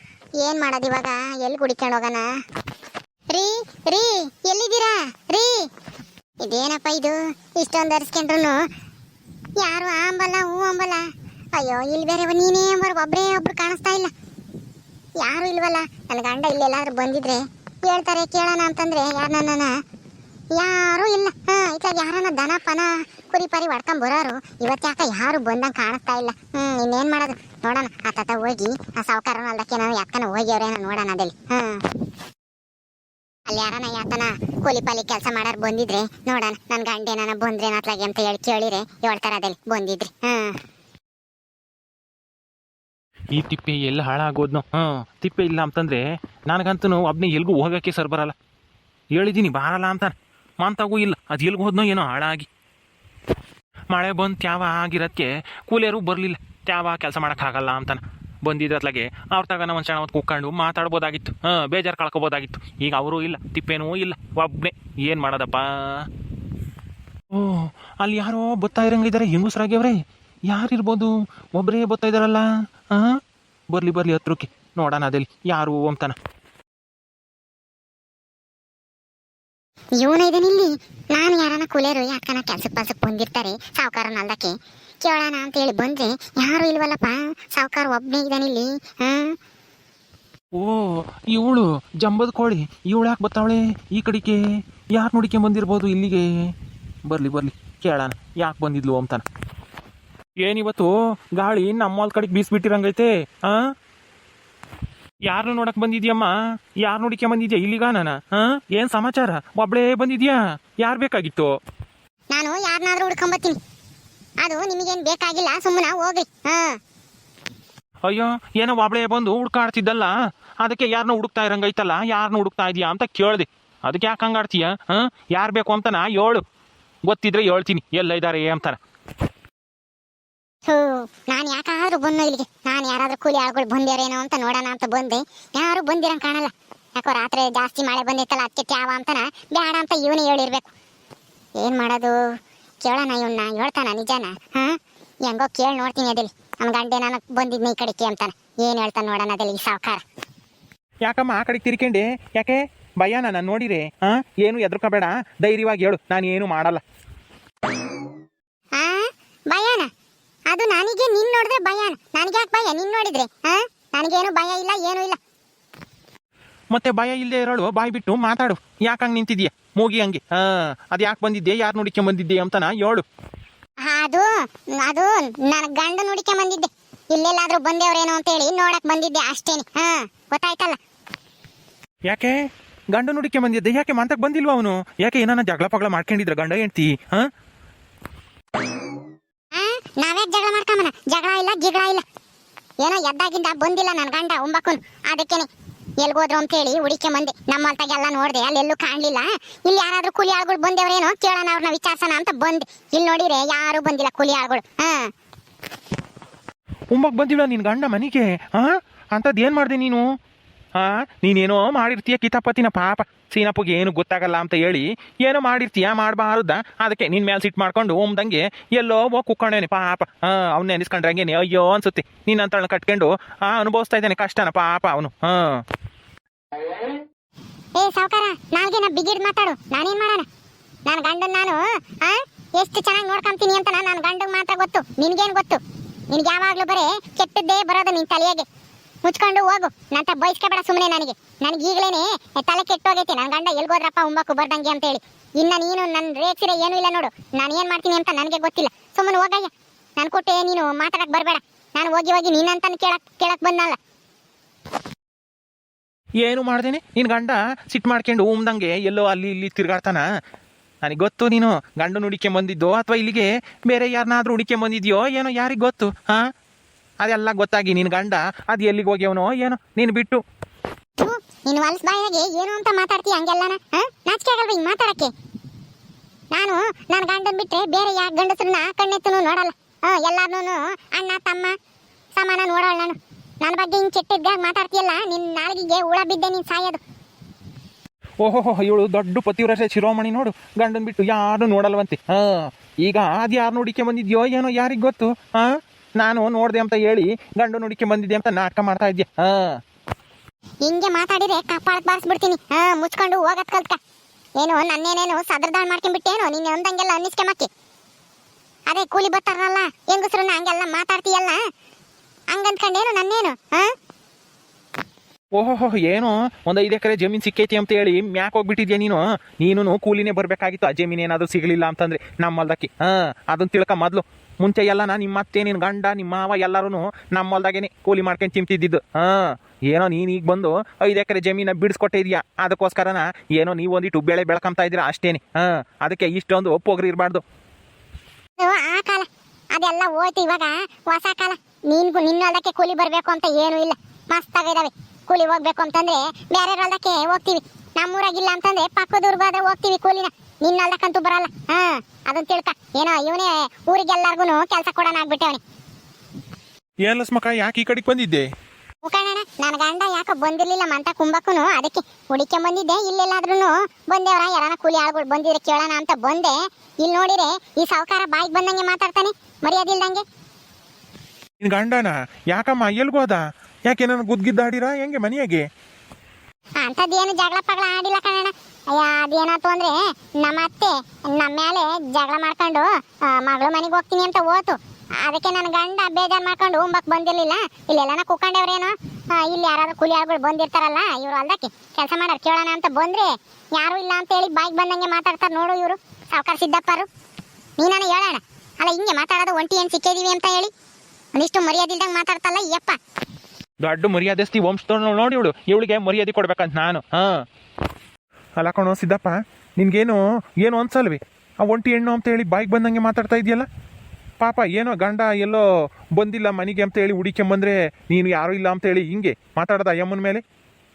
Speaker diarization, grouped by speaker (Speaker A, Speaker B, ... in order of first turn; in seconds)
Speaker A: 0.4-2.3, 3.3-5.7, 6.4-8.6, 9.6-14.1, 15.2-19.7, 20.5-31.8, 33.5-40.6, 80.0-89.4, 112.3-113.6, 114.4-116.8, 130.7-140.7, 141.6-142.2, 142.8-150.0, 158.7-159.9, 160.5-165.2, 173.8-180.8, 189.5-192.0, 192.8-195.5, 196.0-205.1, 227.8-230.3, 230.8-238.5, 239.0-253.8, 271.0-275.1, 276.3-281.5, 282.1-286.8, 300.6-303.8, 304.4-307.5, 308.7-311.4, 312.3-313.7, 338.4-355.4, 358.8-370.0, 376.6-396.9, 397.6-400.5, 401.1-402.8
Speaker B: 43.3-48.3, 49.1-52.5, 53.9-66.1, 67.3-76.2, 90.5-94.4, 94.9-96.3, 97.0-99.2, 100.4-103.6, 105.3-111.5, 118.0-126.4, 127.0-128.8, 151.0-156.8, 166.7-173.0, 182.1-182.3, 182.9-187.3, 206.9-210.1, 210.8-225.6, 256.2-260.0, 260.8-266.2, 267.0-270.2, 288.2-299.6, 315.4-337.2, 356.8-358.3, 371.4-375.4, 403.6-407.2, 408.4-413.4, 414.2-420.2